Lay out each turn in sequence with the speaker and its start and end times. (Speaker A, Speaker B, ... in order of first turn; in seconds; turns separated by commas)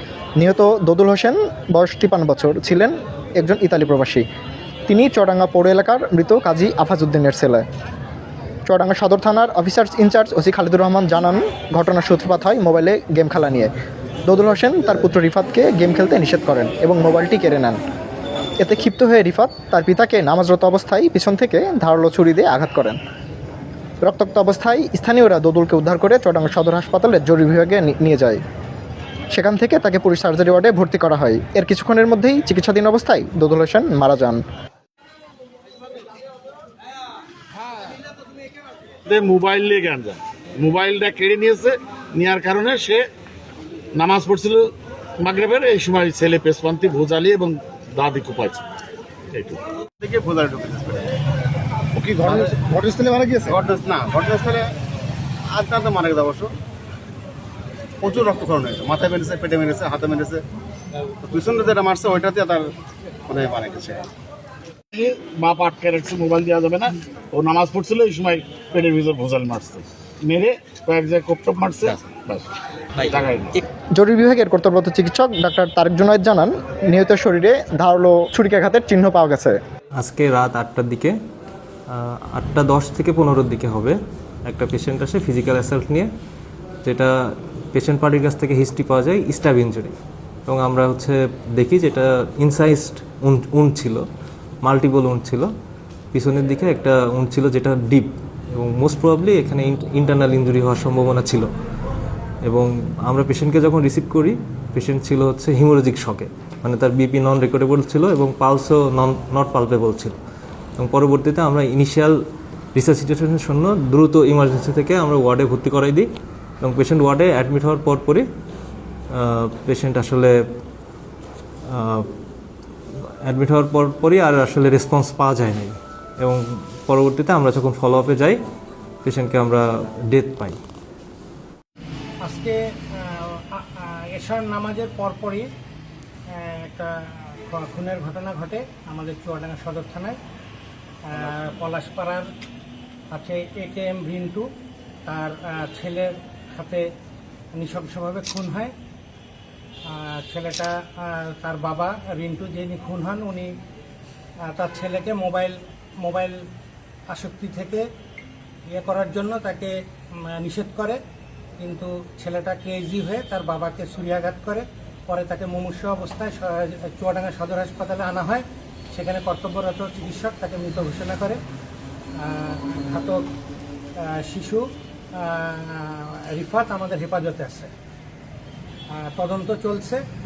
Speaker A: 0.4-4.2, Speaker A: 4.9-7.6, Speaker A: 8.7-13.7, Speaker A: 14.3-17.8, Speaker A: 18.6-23.0, Speaker A: 24.0-28.4, Speaker A: 29.3-34.4, Speaker B: 39.0-43.0, Speaker B: 43.9-48.6, Speaker B: 49.3-49.6, Speaker C: 50.0-51.2, Speaker C: 52.1-54.7, Speaker B: 52.2-52.5, Speaker C: 55.5-56.5, Speaker C: 58.0-60.4, Speaker C: 61.2-62.7, Speaker C: 63.3-64.1, Speaker B: 64.9-73.6, Speaker A: 73.9-79.6, Speaker D: 80.0-81.2, Speaker D: 81.9-86.1, Speaker D: 86.8-87.2, Speaker D: 87.7-89.9, Speaker D: 90.5-94.0, Speaker D: 94.6-95.5, Speaker D: 96.1-101.5, Speaker D: 102.4-110.2, Speaker D: 110.8-112.2, Speaker D: 112.7-116.1, Speaker D: 116.6-118.3, Speaker D: 119.1-120.3, Speaker D: 121.7-122.1, Speaker D: 123.2-128.4, Speaker D: 129.0-130.6, Speaker E: 132.2-135.5, Speaker E: 136.3-140.2, Speaker E: 141.1-142.3, Speaker E: 143.1-144.5, Speaker E: 145.1-146.9, Speaker E: 147.5-148.7, Speaker E: 149.8-153.5, Speaker E: 154.4-156.5, Speaker E: 157.1-157.9, Speaker E: 158.7-161.0, Speaker E: 161.6-171.4, Speaker E: 172.1-173.3, Speaker E: 173.9-177.7, Speaker E: 178.9-180.0